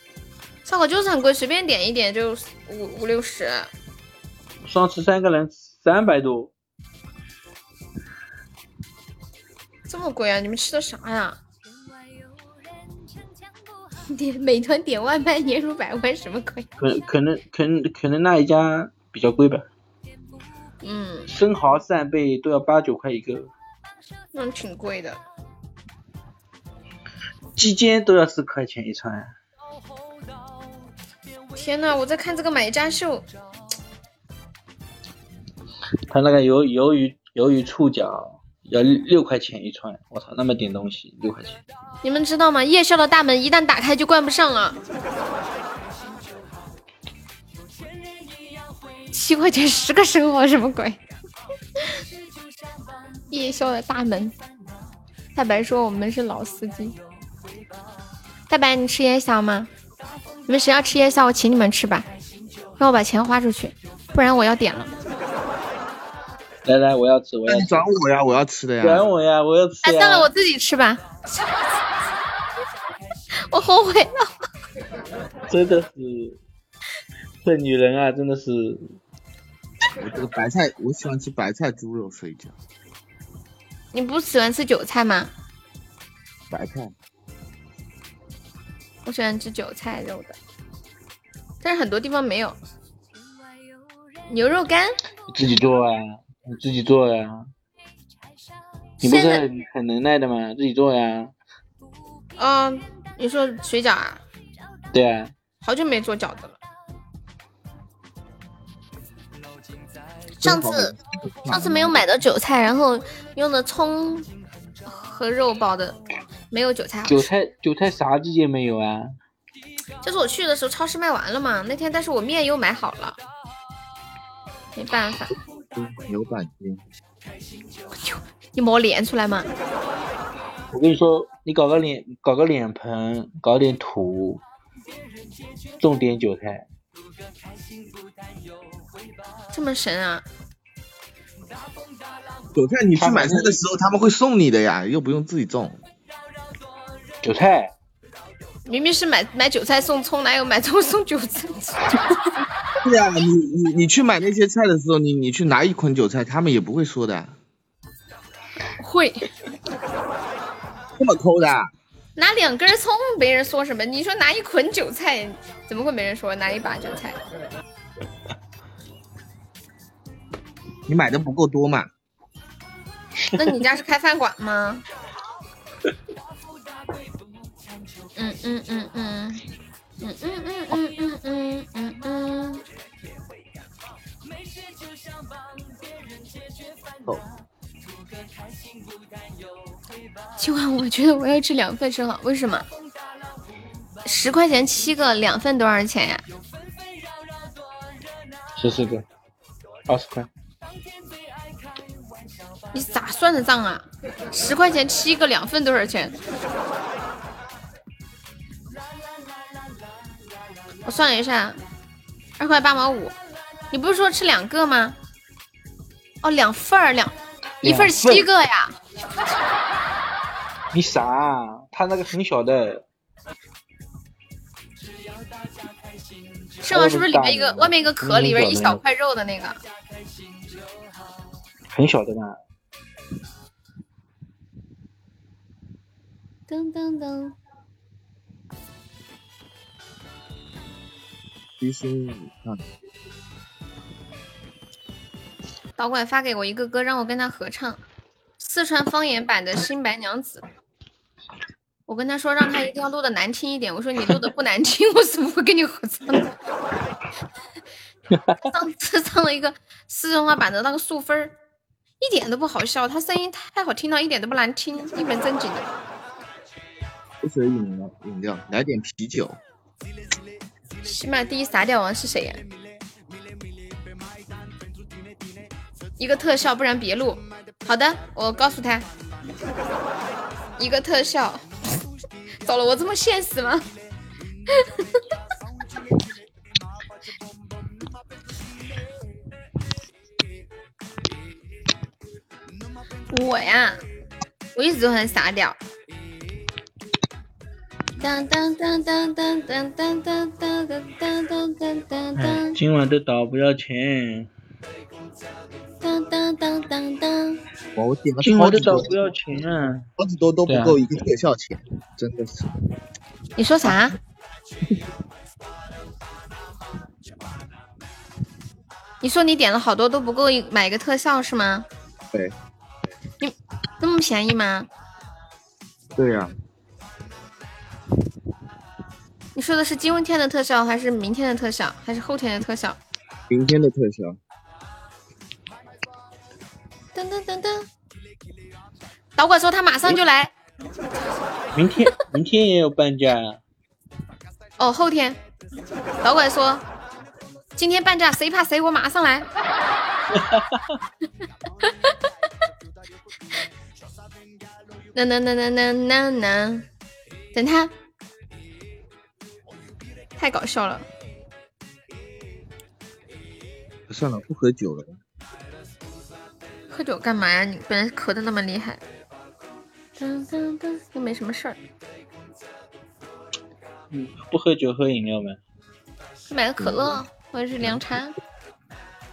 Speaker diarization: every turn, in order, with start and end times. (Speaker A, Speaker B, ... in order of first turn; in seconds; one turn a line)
Speaker A: 0.7-3.7
Speaker B: 4.7-6.5
Speaker A: 9.9-11.4
Speaker A: 14.1-16.6
Speaker B: 16.8-19.7
Speaker A: 20.8-21.3
Speaker B: 21.3-23.5
Speaker A: 24.3-25.2
Speaker B: 27.6-29.3
Speaker A: 31.5-33.3
Speaker B: 36.1-41.6
Speaker A: 42.0-44.8
Speaker A: 49.1-51.0
Speaker A: 53.3-54.3
Speaker A: 55.3-57.0
Speaker A: 58.5-59.7
Speaker A: 60.5-62.1
Speaker A: 62.8-64.9
Speaker B: 66.6-67.8
Speaker C: 67.5-69.1
Speaker B: 68.8-70.3
Speaker A: 69.8-71.1
Speaker A: 73.5-74.3
Speaker B: 75.5-76.4
Speaker B: 77.4-79.0
Speaker C: 80.0-82.5
Speaker A: 83.9-85.3
Speaker C: 86.5-86.9
Speaker A: 89.0-90.4
Speaker A: 91.6-92.6
Speaker A: 94.3-95.0
Speaker B: 95.3-97.5
Speaker A: 99.0-99.4
Speaker B: 99.0-101.3
Speaker A: 102.4-104.2
Speaker B: 104.9-105.3
Speaker A: 105.6-106.6
Speaker A: 110.4-110.9
Speaker C: 110.4-112.0
Speaker A: 111.5-114.3
Speaker A: 114.8-116.0
Speaker A: 116.5-117.3
Speaker B: 117.1-119.1
Speaker A: 120.0-123.2
Speaker A: 124.7-125.4
Speaker C: 125.7-126.8
Speaker A: 128.0-129.5
Speaker B: 130.7-134.4
Speaker B: 135.8-136.7
Speaker A: 139.5-140.2
Speaker C: 142.5-145.8
Speaker B: 143.0-143.6
Speaker B: 147.2-147.7
Speaker A: 148.7-152.2
Speaker C: 152.8-157.3
Speaker A: 158.8-159.3
Speaker C: 161.0-161.7
Speaker A: 162.2-167.2
Speaker C: 170.9-171.9
Speaker A: 173.3-174.8
Speaker A: 178.2-179.4
Speaker A: 180.0-182.6
Speaker A: 190.4-192.7
Speaker A: 194.0-196.2
Speaker B: 198.6-199.1
Speaker B: 199.9-200.3
Speaker A: 202.7-206.1
Speaker A: 210.8-211.6
Speaker A: 212.4-213.1
Speaker A: 213.7-214.9
Speaker A: 216.2-218.8
Speaker B: 217.6-218.3
Speaker B: 220.7-222.8
Speaker A: 226.6-229.6
Speaker B: 226.7-228.8
Speaker B: 231.7-232.4
Speaker A: 236.5-237.3
Speaker C: 241.6-242.6
Speaker A: 245.8-247.8
Speaker A: 248.4-250.4
Speaker A: 251.9-256.3
Speaker A: 258.4-261.3
Speaker A: 262.0-265.7
Speaker C: 267.2-269.4
Speaker A: 270.8-272.4
Speaker A: 276.0-278.9
Speaker A: 280.6-281.4
Speaker A: 282.4-283.6
Speaker A: 293.1-293.8
Speaker A: 294.5-295.6
Speaker A: 298.0-302.6
Speaker B: 302.2-304.3
Speaker A: 305.8-307.4
Speaker C: 307.8-309.2
Speaker B: 308.2-309.9
Speaker C: 310.0-312.5
Speaker B: 310.5-310.8
Speaker A: 313.4-313.9
Speaker A: 319.0-321.6
Speaker A: 323.2-324.7
Speaker C: 325.9-326.3
Speaker A: 329.3-332.8
Speaker C: 333.3-334.2
Speaker A: 336.9-337.7
Speaker A: 339.2-340.3
Speaker B: 341.5-343.4
Speaker A: 344.6-345.2
Speaker A: 346.0-346.6
Speaker A: 347.6-349.3
Speaker B: 350.1-350.6
Speaker A: 351.6-351.9
Speaker A: 354.9-356.6
Speaker A: 357.3-357.7
Speaker A: 360.2-360.9
Speaker C: 363.9-365.0
Speaker A: 366.7-368.8
Speaker A: 370.0-371.6
Speaker B: 373.9-375.4
Speaker A: 376.3-378.1